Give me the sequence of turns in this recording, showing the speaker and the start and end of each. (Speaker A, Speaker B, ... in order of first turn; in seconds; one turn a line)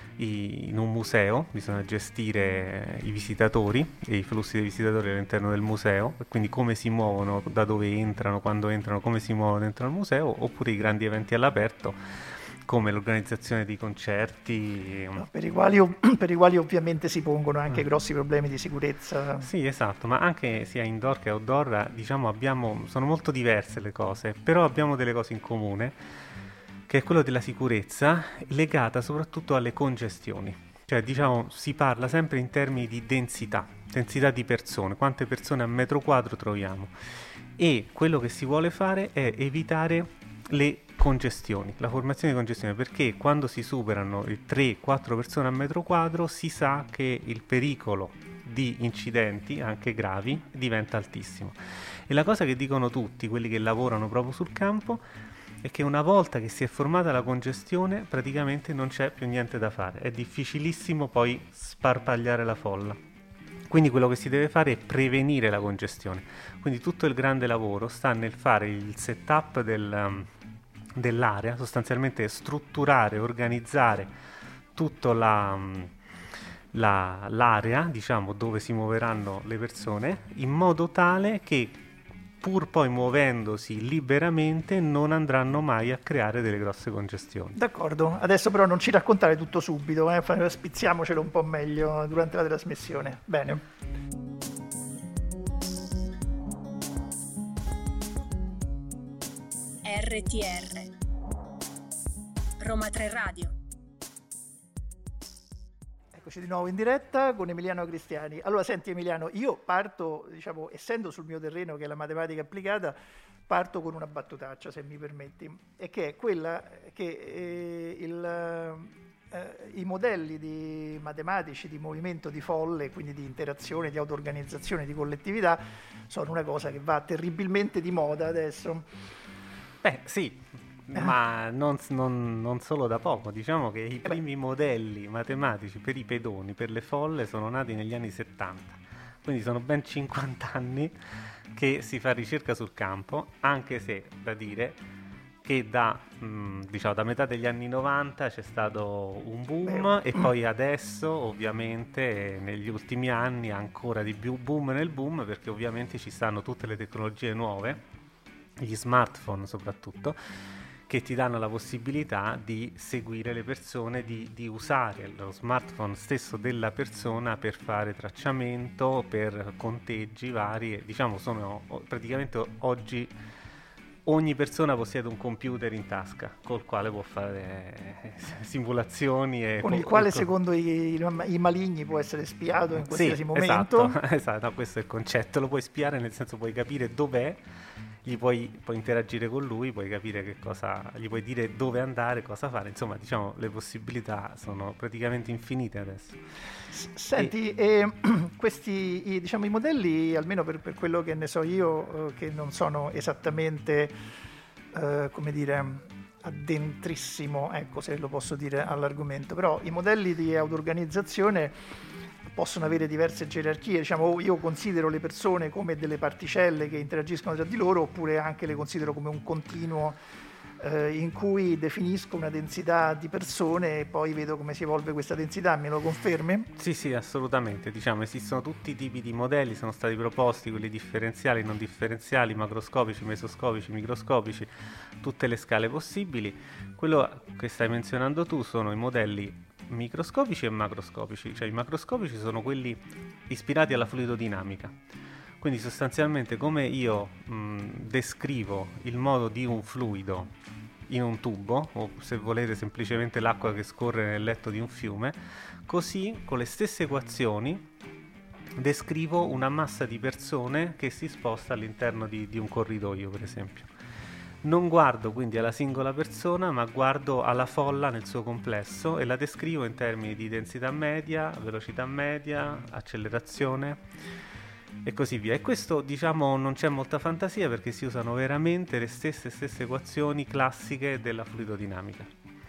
Speaker A: 0.2-15.2
Speaker B: 15.2-19.5
Speaker A: 19.4-26.0
Speaker A: 26.9-55.0
Speaker A: 55.6-63.0
Speaker A: 63.7-70.3
Speaker A: 71.0-74.1
Speaker A: 74.7-75.9
Speaker A: 76.7-81.8
Speaker A: 82.4-87.6
Speaker B: 87.5-93.7
Speaker C: 99.8-100.9
Speaker C: 102.6-103.5
Speaker B: 106.1-113.0
Speaker B: 113.5-128.9
Speaker A: 129.8-144.8
Speaker A: 145.4-157.8
Speaker B: 149.7-150.2
Speaker A: 158.6-160.2
Speaker A: 160.9-173.1
Speaker A: 174.0-180.3
Speaker B: 179.6-183.9
Speaker A: 182.8-187.4
Speaker A: 188.0-196.2
Speaker B: 196.7-203.9
Speaker B: 204.7-211.6
Speaker B: 212.3-220.0
Speaker B: 220.6-226.5
Speaker A: 226.6-244.8
Speaker A: 245.4-250.3
Speaker A: 250.9-257.6
Speaker A: 258.6-263.7
Speaker A: 264.4-273.8
Speaker A: 274.8-282.1